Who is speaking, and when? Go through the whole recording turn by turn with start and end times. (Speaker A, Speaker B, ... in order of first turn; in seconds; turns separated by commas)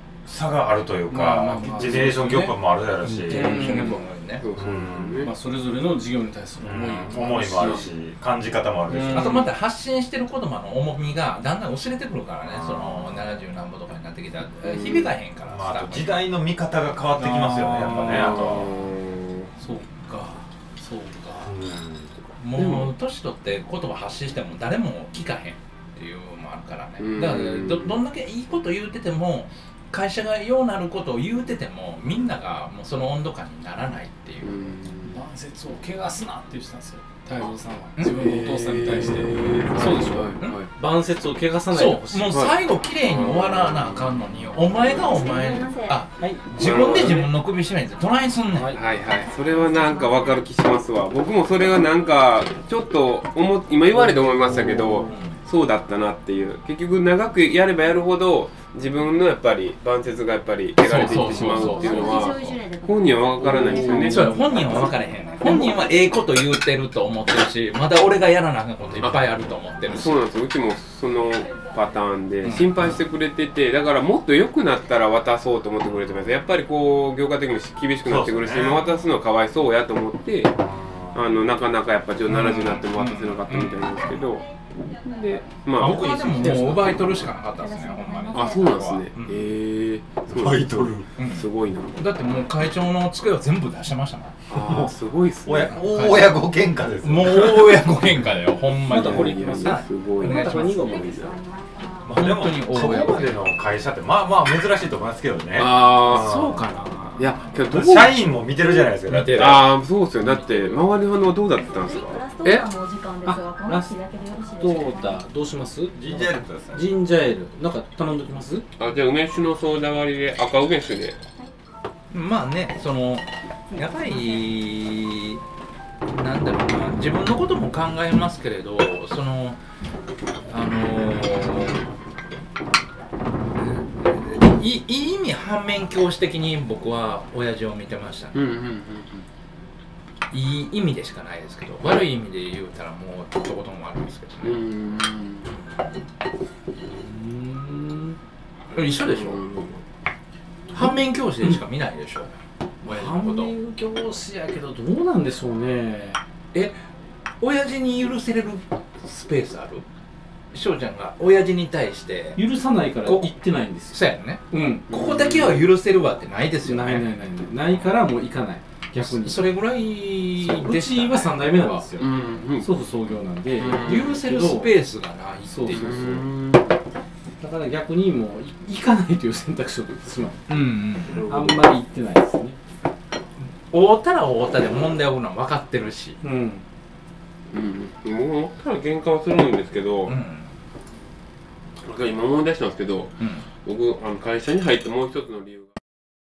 Speaker A: 0.2-3.8, Speaker B: 1.1-2.6, Speaker C: 3.1-4.4, Speaker B: 3.2-4.0, Speaker D: 3.3-5.3, Speaker A: 4.6-5.2, Speaker B: 5.2-7.9, Speaker A: 6.6-9.5, Speaker B: 8.9-9.5, Speaker C: 9.1-16.3, Speaker A: 12.4-13.3, Speaker D: 14.6-15.1, Speaker A: 15.5-18.7, Speaker B: 17.1-18.7, Speaker D: 18.0-19.5, Speaker B: 19.6-21.5, Speaker A: 21.4-22.1, Speaker C: 22.4-34.7, Speaker D: 22.6-22.9, Speaker D: 27.0-28.0, Speaker D: 34.4-35.1, Speaker B: 35.0-42.5, Speaker D: 38.1-40.7, Speaker C: 41.7-48.7, Speaker D: 42.3-44.0, Speaker E: 44.9-46.1, Speaker B: 46.2-47.3, Speaker D: 46.6-47.3, Speaker B: 48.5-48.8, Speaker D: 48.7-64.3, Speaker E: 49.1-50.5, Speaker B: 53.9-55.1, Speaker C: 55.1-55.4, Speaker B: 60.8-62.2, Speaker C: 60.8-62.0, Speaker E: 61.3-66.2, Speaker B: 63.4-64.8, Speaker C: 64.0-70.2, Speaker D: 69.9-80.5, Speaker A: 78.0-78.9, Speaker A: 80.6-81.4, Speaker D: 81.1-87.0, Speaker C: 82.3-83.8, Speaker C: 85.8-89.5, Speaker B: 86.4-86.8, Speaker E: 86.5-88.9, Speaker D: 88.3-92.0, Speaker A: 90.3-91.1, Speaker C: 91.2-94.5, Speaker D: 94.5-95.8, Speaker A: 94.5-94.9, Speaker A: 95.4-98.0, Speaker C: 95.8-96.5, Speaker C: 97.0-100.7, Speaker B: 98.8-101.2, Speaker D: 98.9-101.3, Speaker E: 100.6-102.2, Speaker C: 102.0-103.5, Speaker A: 102.1-106.7, Speaker E: 102.7-103.1, Speaker D: 105.5-106.3, Speaker C: 106.0-107.3, Speaker D: 107.2-108.6, Speaker A: 107.6-109.6, Speaker C: 109.0-109.6, Speaker D: 109.3-112.7, Speaker E: 111.5-115.2, Speaker B: 113.2-114.0, Speaker B: 114.6-118.7, Speaker A: 115.9-116.9, Speaker D: 118.8-121.2, Speaker C: 122.1-125.4, Speaker E: 123.7-124.6, Speaker C: 126.1-129.6, Speaker C: 130.5-131.8, Speaker C: 133.6-138.4, Speaker D: 138.3-139.2, Speaker C: 140.3-144.7, Speaker D: 144.4-145.5, Speaker C: 145.5-145.8, Speaker B: 146.8-148.2, Speaker C: 148.7-149.4, Speaker D: 148.7-149.8, Speaker C: 150.7-152.3, Speaker B: 150.7-151.6, Speaker B: 152.8-156.2, Speaker C: 152.9-153.5, Speaker C: 157.4-159.8, Speaker C: 160.5-162.4, Speaker B: 162.3-165.7, Speaker C: 163.0-163.3, Speaker C: 163.9-167.1, Speaker B: 166.6-169.5, Speaker C: 169.0-171.8, Speaker B: 170.4-174.8, Speaker D: 172.0-172.7, Speaker D: 173.6-174.1, Speaker C: 173.8-176.2, Speaker B: 175.4-176.3, Speaker D: 175.7-176.7, Speaker B: 177.4-182.6, Speaker C: 180.5-181.2, Speaker D: 181.1-181.7, Speaker C: 183.7-186.2, Speaker B: 186.2-186.6, Speaker D: 187.5-190.2, Speaker C: 190.1-190.5, Speaker D: 191.8-195.7, Speaker C: 193.2-193.5